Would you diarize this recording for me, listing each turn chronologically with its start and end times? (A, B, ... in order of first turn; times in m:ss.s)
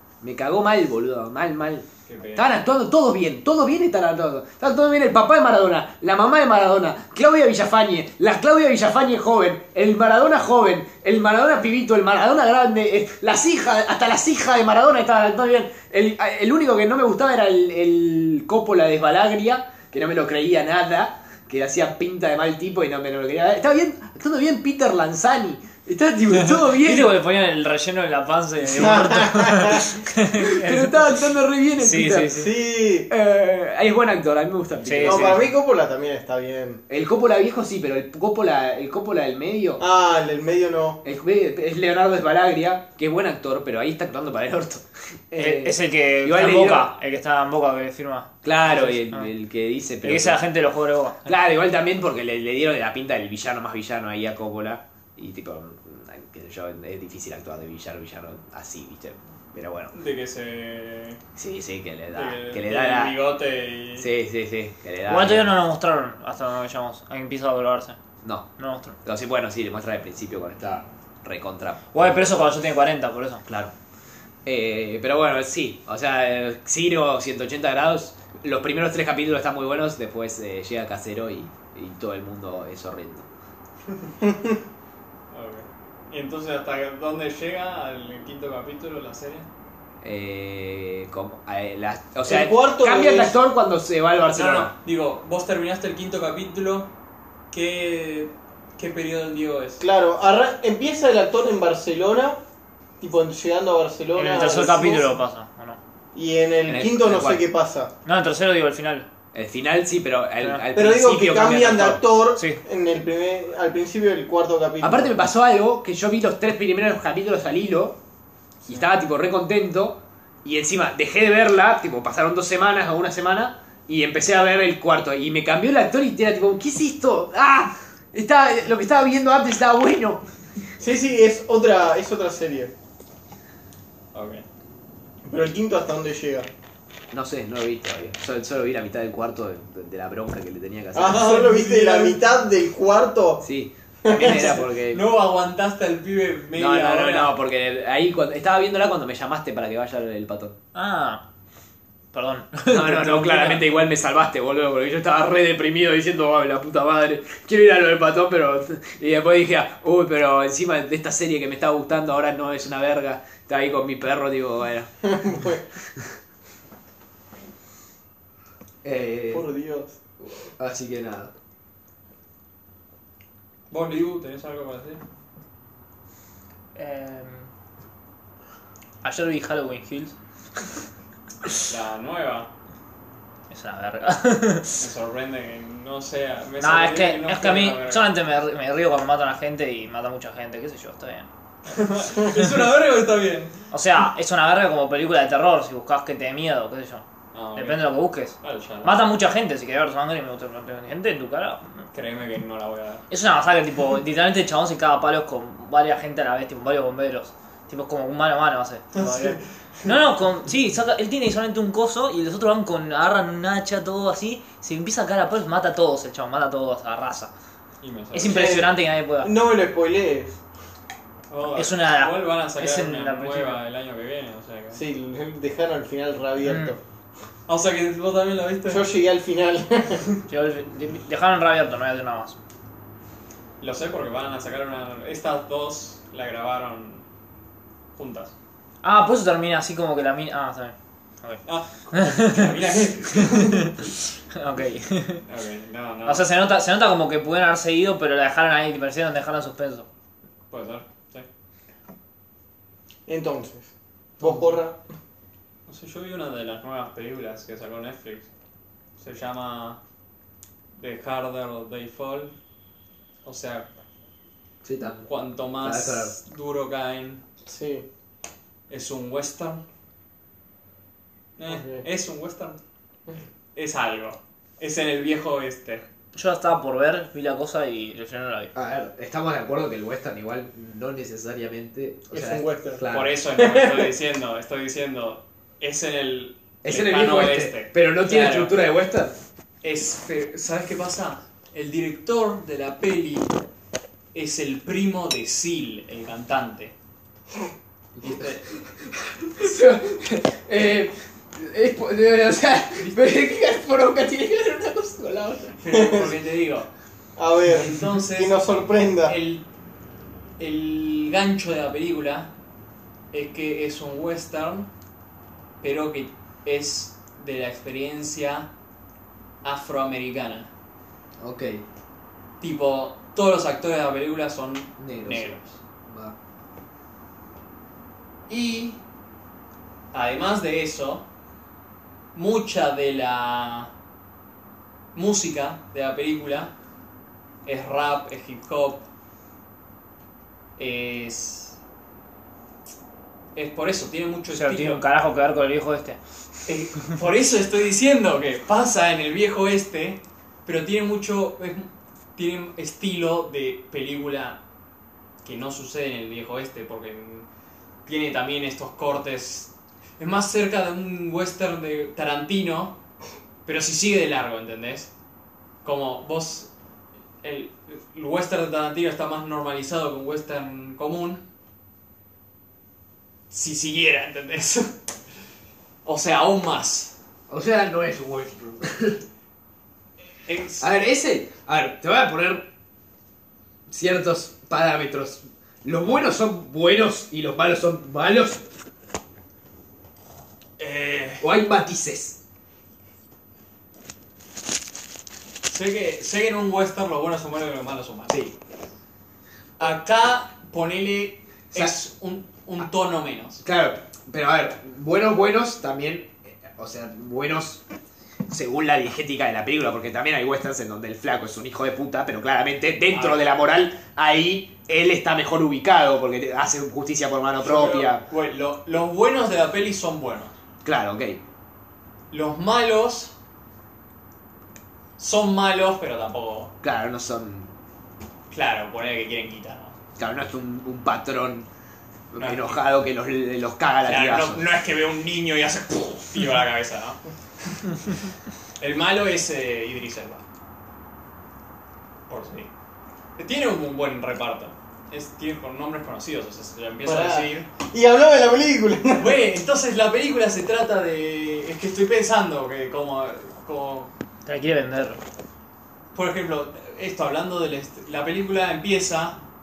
0:00.2-0:27.1 A
0:02.0-0:02.5 B
0:26.8-0:32.5 C
0:28.7-0:29.9 D
0:30.4-0:32.5 A
0:32.3-0:33.1 D
0:33.1-0:35.5 A
0:34.8-0:35.5 C
0:35.0-0:36.8 D
0:36.9-0:39.8 A
0:39.8-0:41.0 D
0:41.0-0:46.9 A
0:45.3-0:49.3 C
0:48.4-0:50.4 A
0:50.0-0:51.3 C
0:51.2-0:59.9 A
0:59.9-1:01.2 B
1:01.4-1:03.2 A
1:02.1-1:04.1 B
1:04.0-1:05.5 A
1:05.0-1:08.0 C
1:08.2-1:08.5 A
1:08.6-1:09.0 C
1:09.0-1:12.3 A
1:11.9-1:13.5 C
1:13.5-1:13.7 A
1:14.4-1:23.3 A
1:24.2-1:24.6 D
1:25.3-1:29.5 B
1:30.0-1:34.7 A
1:32.2-1:33.4 D
1:34.3-1:36.9 B
1:37.5-1:39.8 B
1:39.8-1:42.4 D
1:43.0-1:45.1 D
1:44.1-1:45.8 C
1:46.1-1:47.9 D
1:46.7-1:47.4 A
1:48.0-1:49.1 C
1:49.3-1:52.0 A
1:50.7-1:55.2 D
1:54.8-1:58.0 A
1:58.6-2:10.2 A
2:10.8-2:12.7 D
2:14.1-2:14.4 B
2:15.2-2:16.5 D
2:17.1-2:21.4 A
2:20.9-2:23.4 D
2:21.0-2:22.2 B
2:23.4-2:25.0 A
2:24.0-2:24.6 D
2:24.2-2:27.3 B
2:26.6-2:30.6 A
2:30.7-2:31.2 C
2:32.1-2:33.7 C
2:32.7-2:44.9 A
2:45.0-2:45.6 D
2:48.8-2:49.4 A
2:49.3-2:50.0 D
2:50.2-2:51.3 A
2:53.7-2:55.0 B
2:56.7-2:57.5 C
2:59.0-3:00.2 C
3:01.6-3:02.5 B
3:03.5-3:04.8 C
3:04.8-3:08.1 B
3:06.6-3:11.3 C
3:11.6-3:13.5 B
3:13.7-3:17.0 C
3:17.3-3:19.0 B
3:17.6-3:21.6 C
3:21.9-3:23.0 B
3:23.1-3:37.3 C
3:29.0-3:29.9 B
3:37.8-3:38.4 B
3:38.1-3:39.3 C
3:38.2-3:40.4 D
3:41.3-3:44.8 B
3:41.6-3:43.6 C
3:44.7-3:46.8 D
3:46.4-3:46.8 C
3:47.5-3:48.9 B
3:48.7-3:50.1 D
3:50.3-3:52.4 C
3:53.6-3:57.0 B
3:57.9-3:58.3 B
3:58.8-4:02.5 C
4:01.4-4:03.8 B
4:03.1-4:05.2 C
4:05.2-4:06.3 B
4:06.0-4:09.9 C
4:10.5-4:11.3 B
4:13.1-4:14.8 D
4:14.2-4:14.6 B
4:15.7-4:18.3 B
4:19.0-4:19.8 B
4:20.8-4:22.3 B
4:23.2-4:23.7 B
4:24.6-4:25.1 A
4:25.0-4:27.2 B
4:25.6-4:26.1 A
4:27.4-4:27.9 D
4:28.7-4:29.6 B
4:31.4-4:32.6 B
4:31.5-4:31.8 D
4:33.5-4:35.8 B
4:36.1-4:38.5 C
4:38.5-4:43.2 A
4:42.1-4:42.8 D
4:42.9-4:48.5 B
4:43.3-4:43.9 D
4:46.6-4:49.2 A
4:49.6-4:53.4 B
4:54.1-4:56.7 B
4:58.0-5:05.5 A
5:02.8-5:03.1 B
5:05.6-5:06.7 B
5:05.7-5:06.2 D
5:07.2-5:09.2 D
5:07.4-5:09.4 B
5:10.4-5:12.3 B
5:13.1-5:14.7 B
5:15.6-5:18.5 B
5:19.4-5:20.5 B
5:21.2-5:21.6 A
5:22.4-5:25.6 B
5:24.8-5:26.2 A
5:28.3-5:28.8 B
5:29.9-5:31.0 B
5:32.1-5:33.7 B
5:34.9-5:36.5 B
5:37.4-5:38.9 B
5:40.6-5:41.6 B
5:43.3-5:44.8 B
5:44.3-5:46.0 C
5:46.4-5:54.4 B
5:55.2-5:57.3 B
5:57.8-6:02.8 B
6:03.4-6:04.9 B
6:05.6-6:06.5 B
6:07.2-6:11.2 B
6:13.3-6:14.7 B
6:15.8-6:16.9 B
6:17.3-6:19.0 A
6:20.3-6:20.7 B
6:20.6-6:22.5 A
6:23.7-6:28.4 A
6:30.6-6:31.3 B
6:31.2-6:32.2 A
6:35.5-6:38.2 B
6:38.1-6:38.3 A
6:39.6-6:43.4 B
6:43.4-6:47.6 A
6:48.3-6:58.0 A
6:52.9-6:53.3 B
6:57.4-7:00.4 B
7:00.6-7:01.2 A
7:02.1-7:03.1 B
7:05.0-7:06.5 B
7:06.6-7:07.5 A
7:08.3-7:09.8 B
7:10.0-7:11.5 A
7:12.1-7:14.4 A
7:12.2-7:12.6 B
7:13.8-7:18.1 B
7:18.6-7:20.2 B
7:22.1-7:22.5 B
7:23.2-7:27.5 B
7:26.8-7:29.2 D
7:28.9-7:33.9 B
7:34.2-7:35.0 C
7:35.9-7:39.2 B